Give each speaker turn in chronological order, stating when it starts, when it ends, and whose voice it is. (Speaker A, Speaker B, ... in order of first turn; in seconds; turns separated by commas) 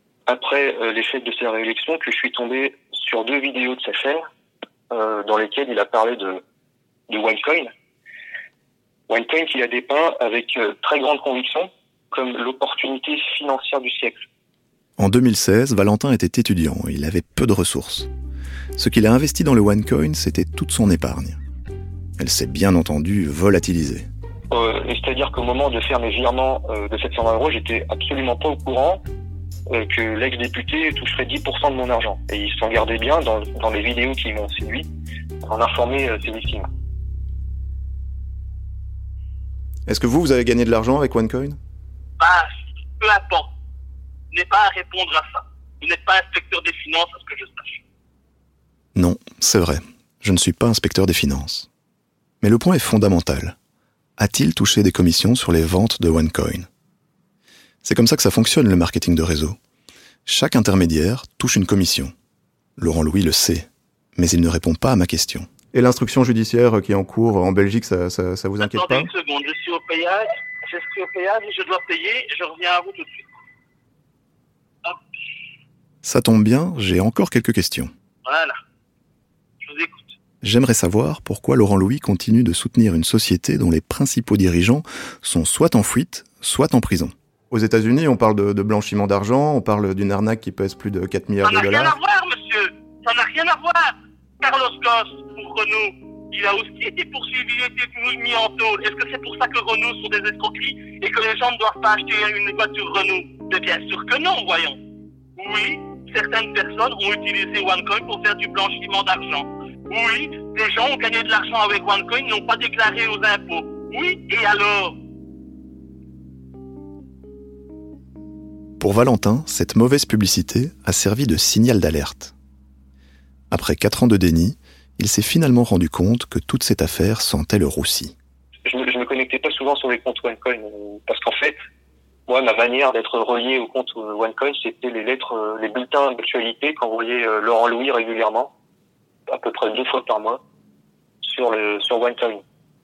Speaker A: 0.3-4.2, Speaker A: 4.9-6.4, Speaker A: 7.1-7.7, Speaker A: 9.1-14.2, Speaker B: 15.0-18.1, Speaker B: 18.8-21.4, Speaker B: 22.2-24.1, Speaker A: 24.5-29.0, Speaker A: 29.7-34.9, Speaker A: 35.4-36.7, Speaker B: 39.9-41.6, Speaker C: 42.2-43.5, Speaker C: 44.3-47.8, Speaker B: 48.9-51.7, Speaker B: 52.4-53.5, Speaker B: 54.2-56.7, Speaker B: 57.8-59.6, Speaker B: 60.2-62.1, Speaker B: 62.8-69.1, Speaker C: 68.6-73.2, Speaker B: 76.0-77.9, Speaker C: 78.2-78.5, Speaker C: 79.6-80.1, Speaker B: 80.4-92.0, Speaker C: 91.4-104.8, Speaker C: 105.4-114.9, Speaker B: 118.8-122.3, Speaker B: 123.5-128.1, Speaker A: 128.7-131.6, Speaker A: 132.3-138.5, Speaker A: 139.3-140.4, Speaker A: 141.2-142.4